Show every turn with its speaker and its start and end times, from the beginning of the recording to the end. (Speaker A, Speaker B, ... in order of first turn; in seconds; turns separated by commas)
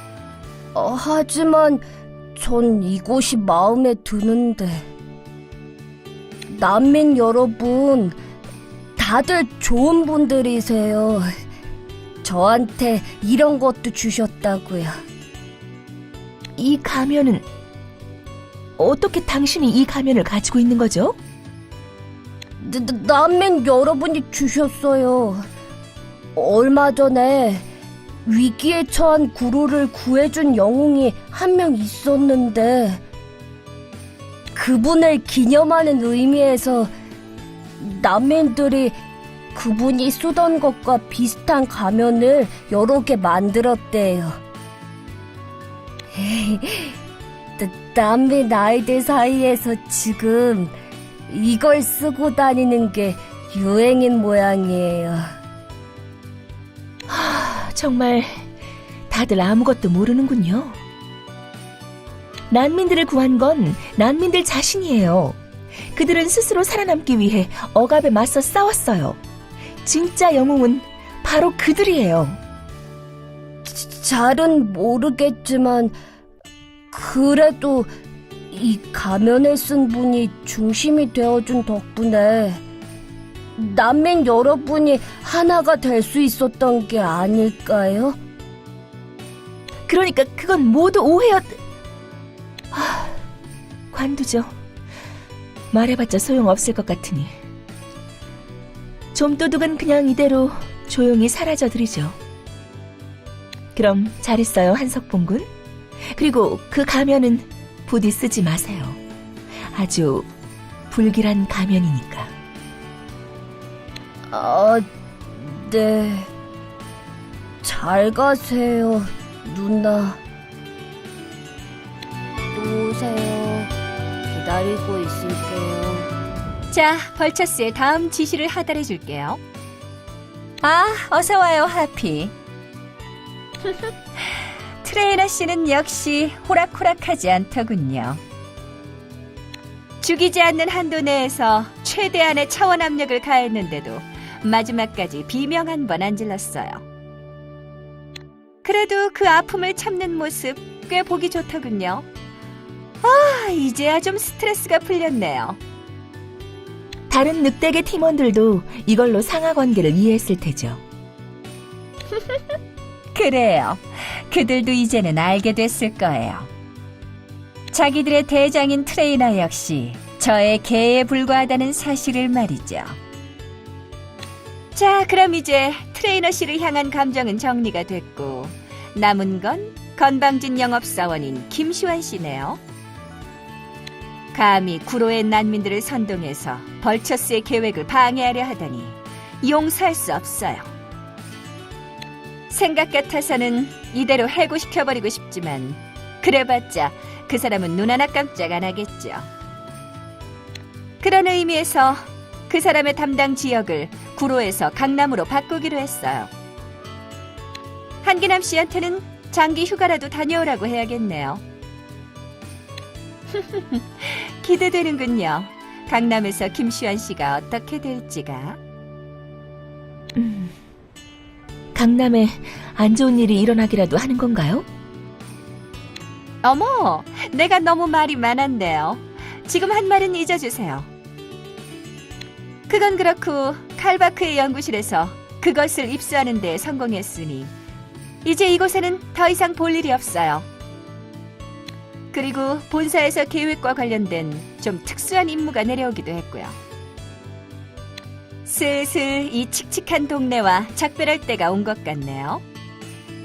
Speaker A: 0.7-1.8, Speaker A: 2.4-4.8, Speaker A: 6.5-8.2, Speaker A: 9.0-11.3, Speaker A: 12.2-15.0, Speaker B: 16.6-17.4, Speaker B: 18.8-21.2, Speaker A: 22.6-25.5, Speaker A: 26.3-27.7, Speaker A: 28.2-33.0, Speaker A: 34.5-36.9, Speaker A: 37.8-38.9, Speaker A: 39.5-44.4, Speaker A: 46.1-47.0, Speaker A: 47.6-50.7, Speaker A: 51.3-55.3, Speaker B: 57.1-58.5, Speaker B: 59.1-60.8, Speaker B: 62.5-65.4, Speaker B: 65.9-69.2, Speaker B: 69.8-72.4, Speaker A: 73.7-75.9, Speaker A: 76.9-77.9, Speaker A: 78.5-82.6, Speaker A: 83.5-88.2, Speaker B: 89.9-91.6, Speaker B: 92.7-93.2, Speaker B: 93.9-94.5, Speaker B: 95.7-97.3, Speaker B: 99.1-102.2, Speaker B: 103.7-105.5, Speaker B: 106.1-109.0, Speaker B: 109.7-110.3, Speaker B: 110.9-112.3, Speaker A: 114.3-114.8, Speaker A: 115.4-116.3, Speaker A: 117.6-120.2, Speaker A: 122.5-123.7, Speaker A: 124.3-126.1, Speaker C: 126.7-129.4, Speaker C: 130.6-132.3, Speaker C: 133.7-138.2, Speaker C: 140.0-146.8, Speaker C: 148.6-152.1, Speaker C: 153.0-155.6, Speaker B: 157.1-160.8, Speaker C: 163.1-166.5, Speaker C: 167.7-173.0, Speaker C: 174.7-182.6, Speaker C: 184.3-190.7, Speaker C: 192.5-199.3, Speaker C: 201.0-206.3, Speaker C: 208.0-211.4, Speaker C: 213.3-218.6, Speaker B: 220.2-220.5, Speaker B: 221.7-224.7, Speaker C: 226.4-230.9, Speaker C: 232.7-237.5, Speaker C: 238.2-240.5, Speaker C: 242.1-246.6, Speaker C: 248.4-252.4